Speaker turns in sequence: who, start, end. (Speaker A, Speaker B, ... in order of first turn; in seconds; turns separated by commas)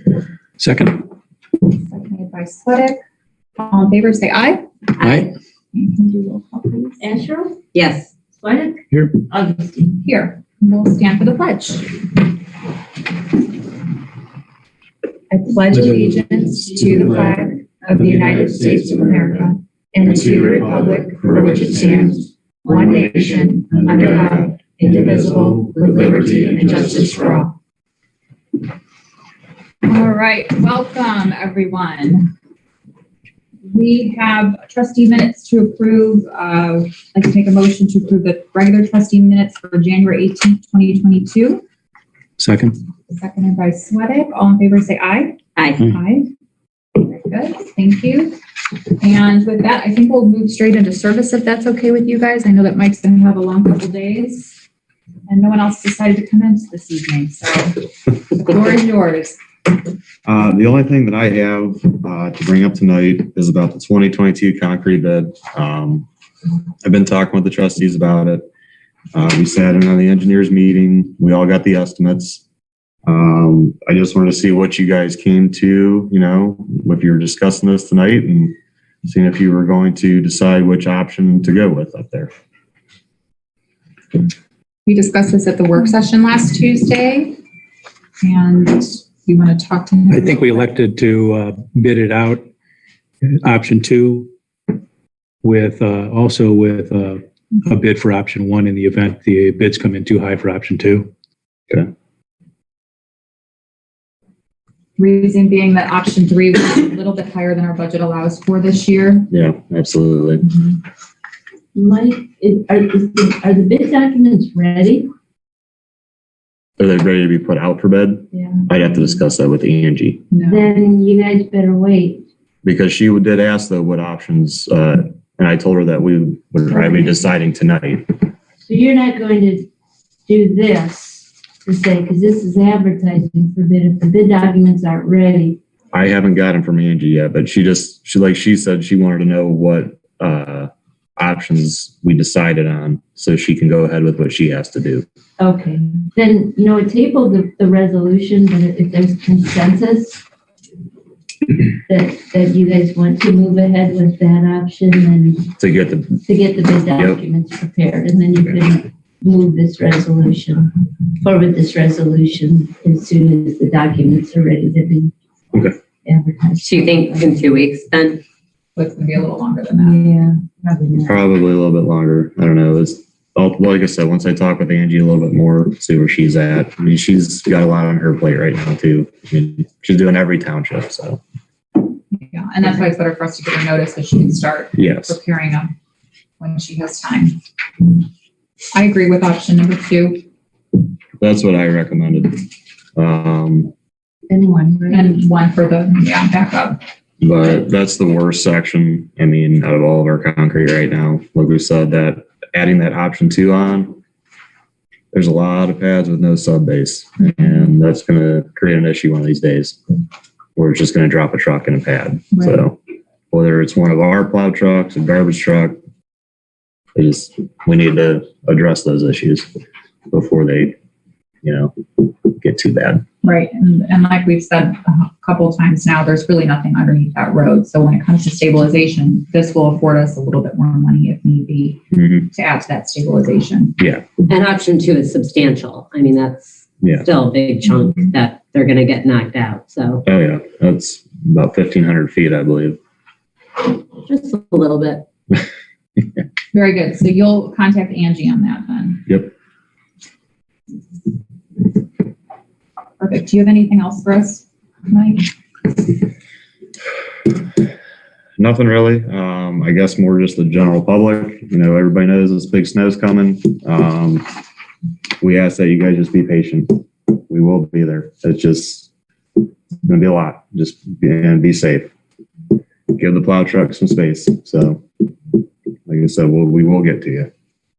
Speaker A: 0.6-1.0, Speaker B: 1.8-3.0, Speaker B: 3.6-4.7, Speaker C: 5.0-5.3, Speaker A: 5.0-5.3, Speaker B: 5.7-7.1, Speaker D: 7.0-7.6, Speaker C: 7.7-8.1, Speaker D: 8.3-10.0, Speaker A: 8.9-9.2, Speaker B: 10.0-12.0, Speaker B: 15.3-27.5, Speaker A: 15.7-16.1, Speaker A: 16.9-17.3, Speaker A: 18.0-19.2, Speaker A: 20.1-21.8, Speaker E: 20.1-22.2, Speaker E: 22.8-24.6, Speaker A: 23.7-26.8, Speaker E: 25.9-27.0, Speaker B: 29.9-32.3, Speaker B: 33.7-41.6, Speaker A: 42.4-42.8, Speaker B: 43.1-46.3, Speaker C: 45.6-45.8, Speaker B: 47.0-48.4, Speaker B: 48.9-54.6, Speaker B: 55.3-57.8, Speaker B: 58.3-59.4, Speaker E: 60.2-66.1, Speaker E: 66.8-68.5, Speaker E: 69.1-72.4, Speaker E: 73.1-82.3, Speaker B: 84.9-87.4, Speaker B: 88.2-90.7, Speaker A: 90.1-92.5, Speaker A: 93.2-94.3, Speaker A: 95.4-101.1, Speaker B: 105.0-109.3, Speaker E: 109.3-110.4, Speaker B: 110.4-110.8, Speaker D: 111.8-115.1, Speaker E: 116.8-120.3, Speaker D: 118.3-118.7, Speaker B: 120.3-120.7, Speaker D: 120.4-122.2, Speaker E: 122.6-128.3, Speaker D: 126.8-127.1, Speaker D: 128.6-129.7, Speaker D: 130.3-135.6, Speaker E: 135.9-145.1, Speaker D: 145.4-150.2, Speaker D: 151.9-155.5, Speaker E: 155.6-156.2, Speaker D: 156.2-165.1, Speaker E: 157.0-157.2, Speaker D: 166.1-167.4, Speaker C: 166.6-168.2, Speaker B: 168.8-170.1, Speaker D: 169.8-171.2, Speaker E: 171.0-181.2, Speaker B: 182.1-185.7, Speaker E: 184.8-185.2, Speaker B: 186.4-187.4, Speaker B: 188.7-190.2, Speaker E: 191.2-193.7, Speaker D: 194.3-195.2, Speaker B: 194.9-196.8, Speaker E: 197.2-203.9, Speaker E: 205.1-209.8, Speaker E: 210.6-212.8, Speaker B: 212.3-212.6, Speaker E: 213.3-215.8, Speaker E: 217.0-219.5, Speaker E: 220.1-220.8, Speaker E: 221.4-223.1, Speaker B: 223.2-233.8, Speaker E: 231.9-232.3, Speaker E: 233.8-234.1, Speaker C: 234.3-240.0, Speaker E: 236.8-237.1, Speaker E: 240.1-242.8, Speaker C: 244.0-245.1, Speaker B: 246.5-249.1, Speaker B: 253.0-255.3, Speaker E: 258.4-264.3, Speaker E: 265.2-268.9, Speaker E: 269.9-271.9, Speaker E: 272.9-274.8, Speaker E: 275.9-277.3